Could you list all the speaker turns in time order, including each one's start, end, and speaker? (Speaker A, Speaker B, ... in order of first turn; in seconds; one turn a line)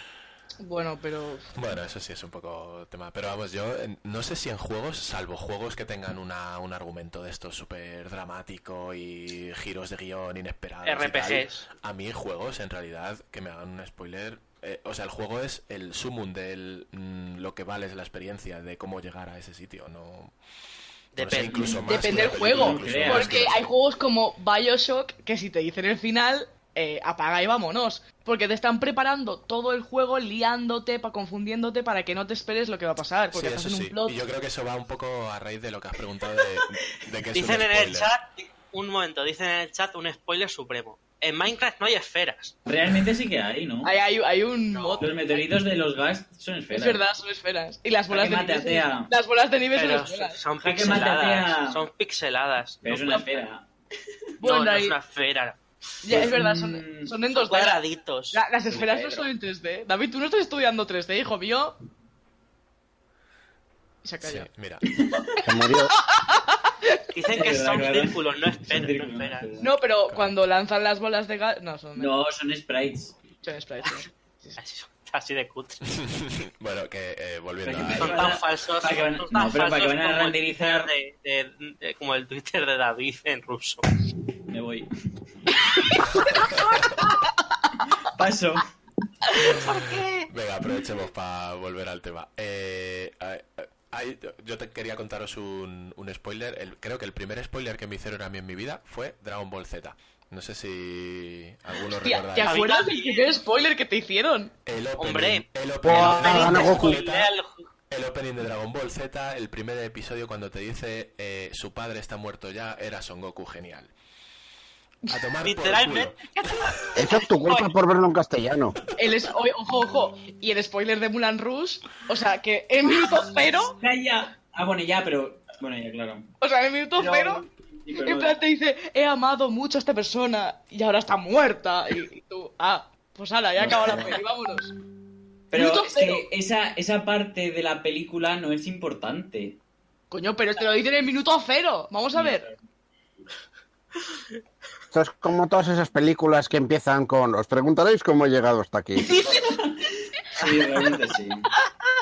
Speaker A: 0.6-1.5
Speaker B: 1.5-20.3
Speaker C: 10.8-11.6
Speaker B: 21.1-23.7
Speaker C: 21.1-21.8
Speaker D: 21.5-23.6
Speaker A: 21.9-34.1
Speaker B: 33.3-38.1
Speaker C: 37.3-42.5
Speaker D: 42.7-43.9
Speaker A: 43.8-45.4
Speaker C: 44.7-45.0
Speaker D: 45.0-47.0
Speaker A: 46.7-50.4
Speaker D: 48.1-49.1
Speaker C: 49.8-53.4
Speaker D: 50.6-51.9
Speaker D: 52.8-53.7
Speaker A: 54.4-55.0
Speaker C: 54.4-55.6
Speaker A: 56.0-61.8
Speaker D: 56.1-57.1
Speaker C: 57.3-58.4
Speaker D: 58.7-59.2
Speaker A: 64.0-64.5
Speaker B: 64.2-64.8
Speaker D: 64.9-65.2
Speaker E: 65.4-65.9
Speaker A: 66.1-67.0
Speaker C: 67.1-69.5
Speaker D: 67.3-69.7
Speaker A: 69.6-72.1
Speaker D: 72.0-73.1
Speaker A: 73.4-74.6
Speaker C: 74.6-75.8
Speaker B: 75.9-78.3
Speaker D: 77.6-80.9
Speaker C: 77.9-83.8
Speaker D: 84.5-84.9
Speaker A: 85.5-87.6
Speaker B: 86.2-86.6
Speaker D: 88.1-88.6
Speaker C: 89.4-90.3
Speaker B: 90.3-102.6
Speaker A: 102.0-104.5
Speaker C: 102.5-103.4
Speaker B: 104.7-107.3
Speaker C: 105.0-107.7
Speaker E: 105.8-107.0
Speaker B: 107.9-113.9
Speaker B: 115.1-116.8
Speaker C: 115.4-117.7
Speaker E: 117.0-118.8
Speaker A: 119.0-123.8
Speaker D: 123.8-126.3
Speaker A: 126.4-127.4
Speaker D: 126.9-128.3
Speaker A: 128.0-134.7
Speaker D: 133.6-134.2
Speaker D: 135.5-139.6
Speaker A: 135.5-136.3
Speaker A: 140.1-142.5
Speaker D: 142.1-142.6
Speaker E: 144.9-149.1
Speaker A: 149.0-149.6
Speaker D: 149.2-151.5